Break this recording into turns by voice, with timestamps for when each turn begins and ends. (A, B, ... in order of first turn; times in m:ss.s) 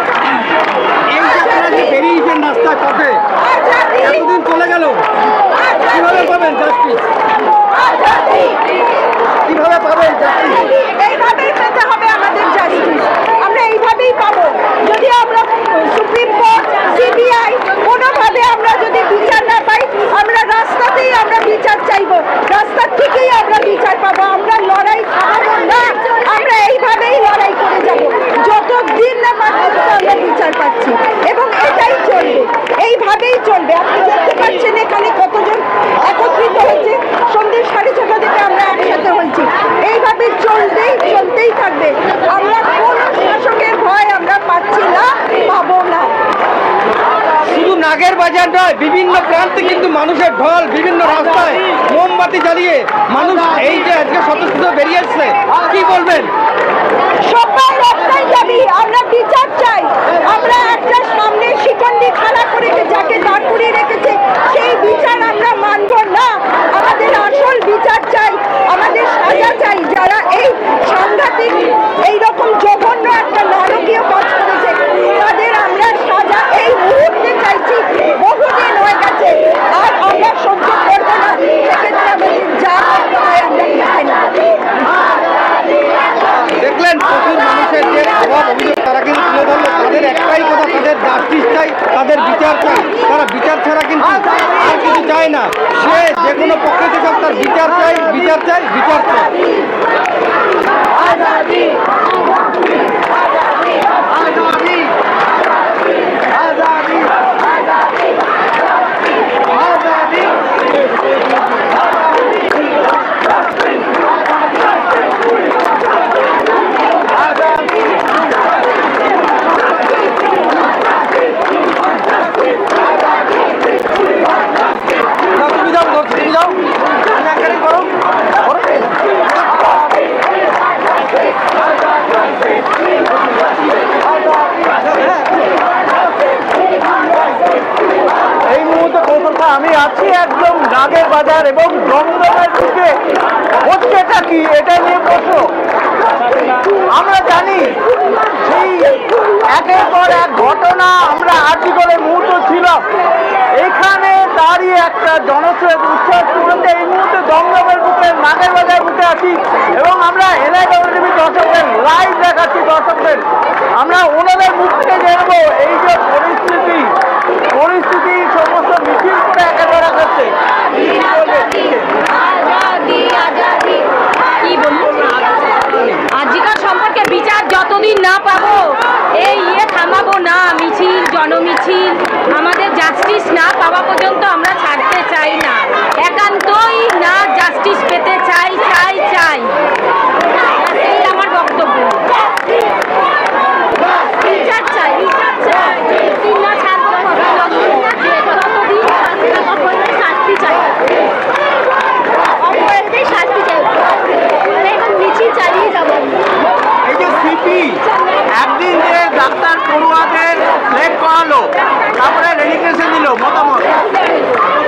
0:01.1-0:03.2 A
0:03.6-0:04.0 B
0:04.0-0:05.0 A
0:05.9-0:07.0 A
0:09.5-0:10.6 A
0:10.7-0:46.1 B
0:47.4-0:56.3 A
0:57.2-1:24.6 B
1:26.6-1:39.3 A
2:05.4-2:06.6 A
2:07.1-2:07.9 A
2:18.5-2:22.8 C
2:18.9-2:22.8 D
2:23.7-2:25.4 D
2:23.7-2:25.4 C
2:27.0-2:27.6 C
2:27.0-2:27.6 D
2:28.5-2:29.0 D
2:28.5-2:28.8 C
2:29.6-2:32.6 C
2:29.6-2:32.8 D
2:33.6-2:43.2 D
2:34.1-2:35.3 C
2:36.3-2:37.9 C
2:38.6-2:39.3 C
2:43.8-2:46.9 D
2:47.5-2:51.7 D
2:49.0-2:49.3 C
2:50.8-2:51.7 C
2:52.1-2:53.9 E
2:54.4-3:09.6 E
3:10.5-3:12.1 E
3:14.2-3:20.7 E
3:22.5-3:23.8 E
3:24.5-3:26.1 E
3:26.9-3:27.8 C
3:28.4-3:31.5 C
3:32.0-3:33.7 C